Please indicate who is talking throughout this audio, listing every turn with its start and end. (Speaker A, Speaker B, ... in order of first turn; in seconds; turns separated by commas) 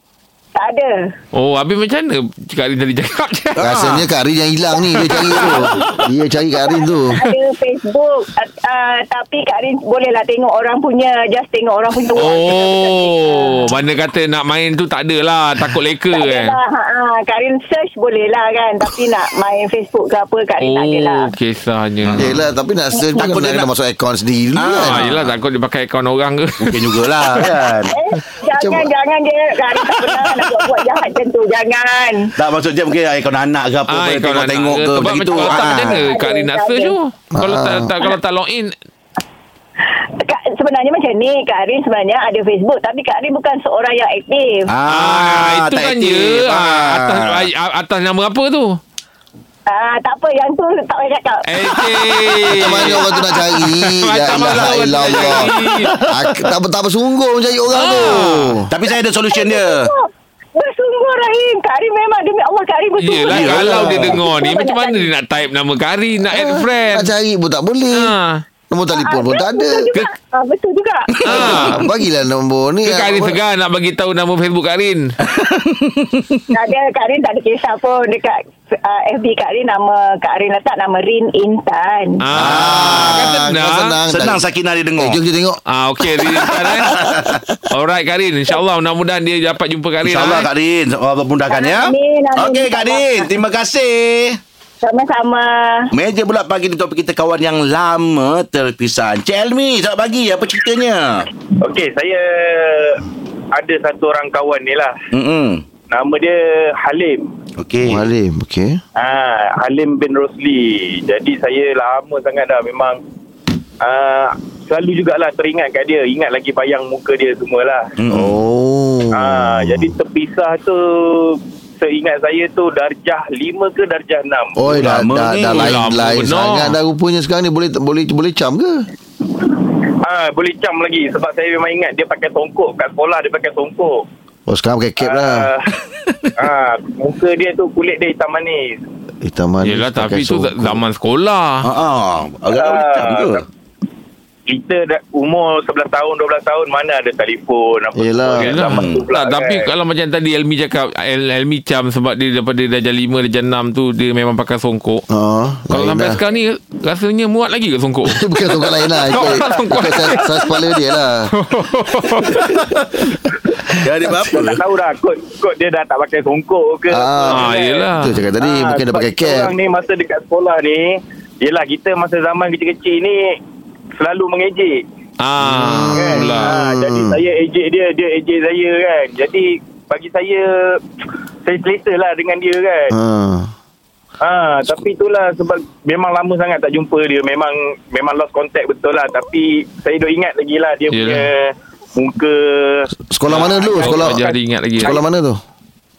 Speaker A: 0.6-1.1, Speaker B: 1.3-3.8, Speaker C: 3.6-4.0, Speaker D: 3.6-7.2, Speaker B: 5.1-5.5, Speaker C: 5.2-5.7, Speaker A: 6.6-13.6, Speaker B: 12.2-16.5, Speaker A: 16.1-21.3, Speaker B: 20.6-22.3, Speaker C: 22.0-22.4, Speaker D: 22.1-25.1, Speaker C: 23.1-23.7, Speaker C: 24.5-25.2, Speaker B: 24.7-27.5, Speaker C: 26.6-27.9, Speaker A: 27.9-32.3, Speaker D: 28.6-28.9, Speaker C: 30.0-30.4, Speaker C: 32.4-36.1, Speaker B: 33.9-38.7, Speaker A: 35.3-36.9, Speaker D: 37.3-37.9, Speaker A: 40.2-44.7, Speaker C: 44.7-47.5, Speaker B: 44.9-48.8, Speaker A: 49.7-52.0, Speaker B: 51.5-55.9, Speaker D: 52.5-58.7, Speaker C: 54.3-56.5, Speaker B: 57.7-58.6, Speaker C: 58.7-59.9, Speaker A: 59.3-65.1, Speaker B: 63.0-67.1, Speaker C: 63.3-64.2, Speaker D: 66.3-68.1, Speaker B: 67.9-68.4, Speaker D: 68.7-69.9, Speaker A: 68.9-71.5, Speaker C: 71.2-71.7, Speaker B: 71.2-71.8, Speaker D: 71.3-73.4, Speaker B: 72.8-75.1, Speaker C: 75.2-76.4, Speaker A: 76.5-82.2, Speaker B: 82.2-84.0, Speaker C: 82.3-83.3, Speaker D: 82.3-84.4, Speaker C: 84.1-85.2, Speaker D: 85.0-85.6, Speaker B: 85.7-87.1, Speaker C: 86.2-87.4, Speaker B: 87.7-90.5, Speaker C: 90.0-94.4, Speaker A: 91.5-93.3, Speaker A: 94.8-95.9, Speaker C: 95.9-101.3, Speaker E: 101.6-104.9, Speaker C: 105.1-105.6, Speaker E: 105.9-107.3, Speaker C: 107.6-108.0, Speaker D: 107.8-108.8, Speaker E: 109.0-113.0, Speaker E: 113.8-117.9, Speaker C: 118.0-118.4, Speaker D: 118.1-119.9, Speaker E: 119.1-124.6, Speaker D: 124.6-128.8, Speaker C: 124.6-125.8, Speaker B: 125.5-126.8, Speaker E: 130.0-134.0, Speaker D: 134.5-135.5, Speaker E: 135.0-135.7, Speaker E: 136.4-138.8, Speaker D: 139.2-140.8, Speaker B: 139.6-141.7, Speaker C: 141.6-143.4, Speaker E: 142.5-143.4, Speaker E: 144.5-149.7, Speaker D: 147.9-148.5, Speaker B: 148.4-155.0, Speaker C: 148.6-149.0, Speaker D: 155.1-156.2, Speaker B: 155.7-160.7, Speaker D: 158.0-161.3, Speaker E: 159.3-159.5, Speaker B: 161.3-162.5, Speaker C: 163.8-164.6, Speaker E: 164.2-167.9, Speaker D: 166.9-169.5, Speaker B: 167.3-168.1, Speaker E: 168.4-173.4, Speaker E: 174.0-174.8, Speaker B: 175.2-176.5, Speaker D: 175.4-177.2, Speaker E: 175.9-180.8, Speaker E: 181.4-182.9, Speaker D: 182.9-183.5, Speaker E: 184.2-195.0, Speaker B: 190.9-191.3, Speaker D: 193.1-194.2, Speaker B: 193.3-195.0, Speaker D: 194.8-195.4